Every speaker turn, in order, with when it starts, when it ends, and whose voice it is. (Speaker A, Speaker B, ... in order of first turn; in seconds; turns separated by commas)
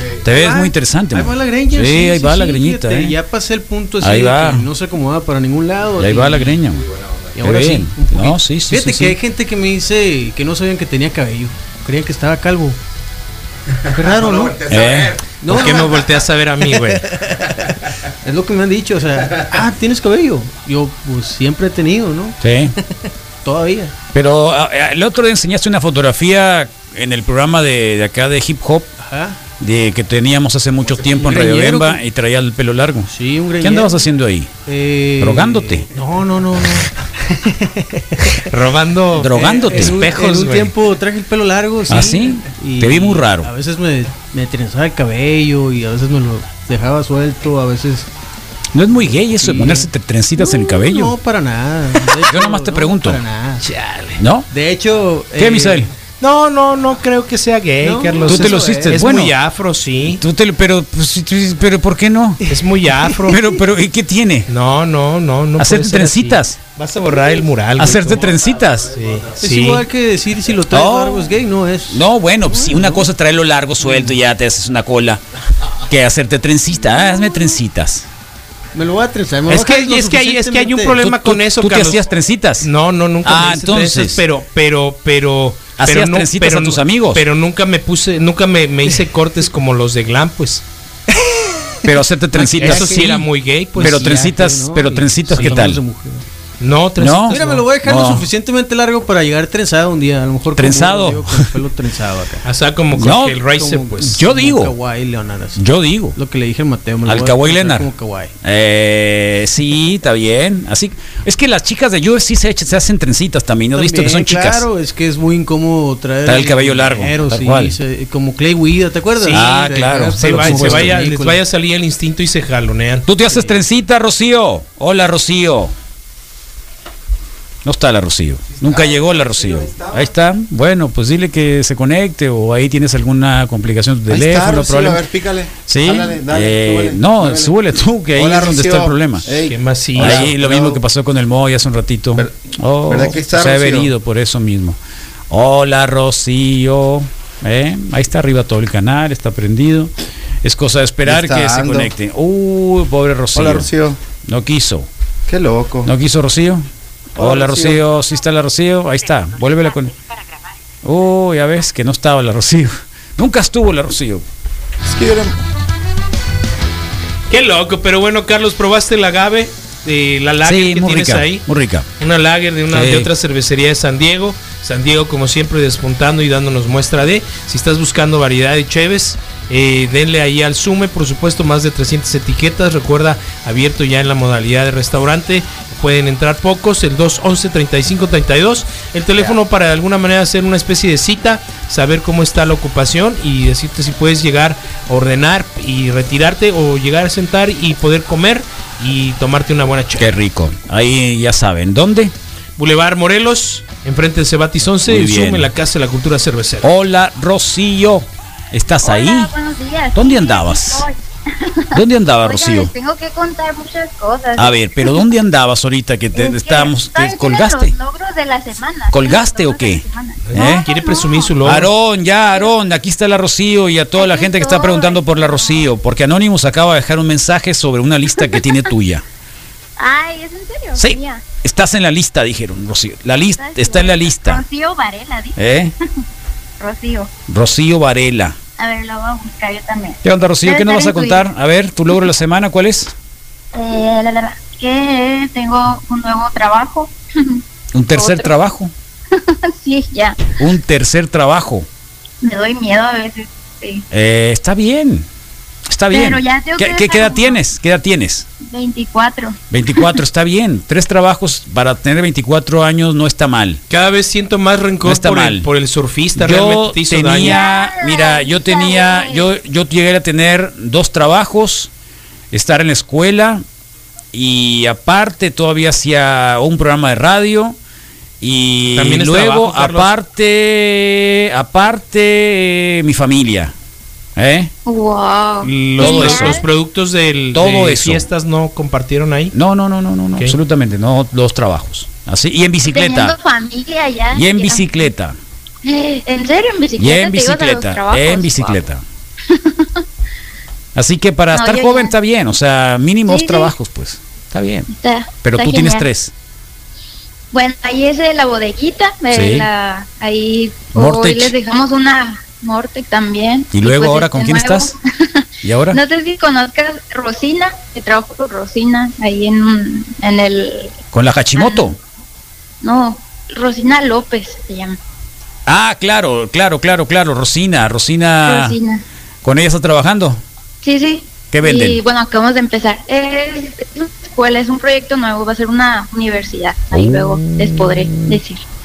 Speaker A: 0.2-3.2, Speaker B: 0.3-6.6, Speaker A: 4.0-4.7, Speaker A: 6.0-6.8, Speaker B: 7.4-12.8, Speaker A: 7.4-9.2, Speaker B: 13.9-14.7, Speaker C: 14.1-15.2, Speaker A: 14.7-15.2, Speaker B: 15.4-16.1, Speaker D: 15.5-17.1, Speaker B: 16.7-17.7, Speaker B: 18.2-22.4, Speaker A: 22.4-22.8, Speaker B: 23.4-23.9, Speaker A: 24.1-28.9, Speaker B: 29.0-29.4, Speaker A: 29.6-34.5, Speaker B: 30.9-32.0, Speaker B: 33.1-34.1, Speaker B: 34.7-38.4, Speaker A: 35.2-35.9, Speaker D: 38.5-40.7, Speaker A: 39.2-40.0, Speaker B: 39.3-48.1, Speaker A: 41.9-43.5, Speaker A: 48.7-51.2, Speaker B: 49.0-53.7, Speaker A: 52.2-53.2, Speaker D: 53.6-54.2, Speaker A: 54.2-54.5, Speaker B: 54.5-55.9, Speaker A: 55.4-55.9, Speaker D: 56.2-60.2, Speaker B: 57.8-59.1, Speaker A: 58.3-59.4, Speaker A: 60.1-62.4, Speaker D: 62.5-63.4, Speaker A: 63.3-64.5, Speaker D: 64.5-68.3, Speaker A: 65.6-66.6, Speaker A: 67.8-68.9, Speaker D: 68.9-69.8, Speaker B: 69.4-73.1, Speaker A: 70.7-71.4, Speaker A: 71.9-75.2, Speaker B: 73.8-74.1, Speaker A: 75.9-78.1, Speaker B: 78.7-81.0, Speaker D: 79.5-82.1, Speaker A: 80.9-82.7, Speaker D: 82.6-90.6, Speaker A: 83.2-84.2, Speaker A: 85.8-87.2, Speaker A: 91.8-93.3, Speaker B: 92.4-93.1, Speaker D: 92.4-94.2, Speaker B: 93.8-96.2, Speaker A: 93.8-95.8, Speaker D: 95.3-95.6, Speaker D: 96.6-97.6, Speaker A: 97.0-98.3, Speaker B: 97.3-102.5, Speaker A: 100.5-101.5, Speaker D: 102.5-104.2, Speaker A: 103.0-103.4, Speaker B: 103.5-105.6, Speaker A: 104.0-104.7, Speaker A: 105.6-106.2, Speaker B: 106.2-108.3, Speaker A: 107.0-107.9, Speaker A: 108.4-114.7, Speaker B: 113.7-121.4, Speaker A: 116.2-117.8, Speaker D: 119.2-119.5, Speaker A: 119.3-121.0, Speaker D: 120.2-123.1, Speaker A: 123.1-125.7, Speaker B: 123.3-123.6, Speaker A: 127.7-135.0, Speaker C: 128.6-130.1, Speaker C: 134.1-137.6, Speaker A: 135.7-139.3, Speaker C: 138.2-140.8, Speaker D: 139.5-140.3, Speaker A: 140.0-144.8, Speaker C: 142.2-143.9, Speaker A: 145.3-149.9, Speaker A: 150.4-153.7, Speaker C: 151.1-151.9, Speaker C: 153.3-154.0, Speaker A: 154.2-154.9, Speaker C: 155.3-155.9, Speaker A: 155.8-159.9, Speaker C: 157.2-157.8, Speaker A: 160.8-164.2, Speaker C: 164.9-165.4, Speaker D: 167.3-171.4, Speaker A: 170.4-171.9, Speaker D: 172.0-200.1, Speaker A: 172.7-173.1, Speaker A: 200.0-202.1, Speaker D: 202.6-206.7, Speaker A: 204.9-205.5, Speaker A: 206.6-209.3, Speaker E: 208.8-215.0, Speaker A: 209.9-210.9, Speaker A: 211.7-212.7, Speaker A: 214.4-217.8, Speaker E: 216.2-221.4, Speaker A: 218.9-220.7, Speaker D: 220.2-221.7, Speaker A: 221.4-229.0, Speaker E: 223.9-225.7, Speaker E: 228.2-228.4, Speaker E: 229.8-231.2, Speaker A: 230.8-234.4, Speaker E: 233.4-235.4, Speaker A: 235.4-235.7, Speaker E: 236.6-237.1, Speaker A: 237.3-238.4, Speaker E: 238.6-241.3, Speaker A: 240.0-242.9, Speaker E: 243.5-247.4, Speaker A: 247.7-248.7, Speaker E: 247.9-248.3, Speaker E: 249.1-250.3, Speaker A: 250.4-251.7, Speaker E: 252.2-253.8, Speaker A: 253.9-255.1, Speaker A: 255.7-258.3, Speaker E: 255.9-257.4, Speaker E: 258.4-259.9, Speaker A: 259.5-263.6, Speaker D: 263.7-267.4, Speaker A: 264.8-265.5, Speaker A: 266.2-271.7, Speaker E: 267.2-269.3, Speaker A: 272.3-273.4, Speaker A: 274.1-277.6, Speaker A: 278.2-283.5, Speaker D: 278.8-279.9, Speaker A: 284.2-284.5, Speaker E: 284.7-286.4, Speaker D: 285.4-289.3, Speaker A: 285.8-286.4, Speaker A: 287.3-288.1, Speaker A: 289.3-293.1, Speaker E: 292.7-294.9, Speaker A: 294.1-295.2, Speaker E: 295.6-298.6, Speaker A: 296.8-298.8, Speaker E: 299.3-299.8, Speaker A: 300.8-304.7, Speaker E: 301.3-301.9, Speaker E: 303.1-303.5, Speaker E: 304.7-305.9, Speaker A: 305.2-306.1, Speaker E: 307.3-320.8, Speaker A: 309.1-309.5, Speaker A: 310.7-311.3, Speaker A: 313.5-314.7, Speaker A: 315.4-315.8, Speaker A: 320.9-321.8, Speaker E: 321.4-321.8, Speaker E: 322.6-324.8, Speaker A: 325.5-328.6, Speaker E: 328.2-328.8, Speaker A: 329.2-330.2, Speaker E: 330.6-338.4, Speaker A: 331.3-331.8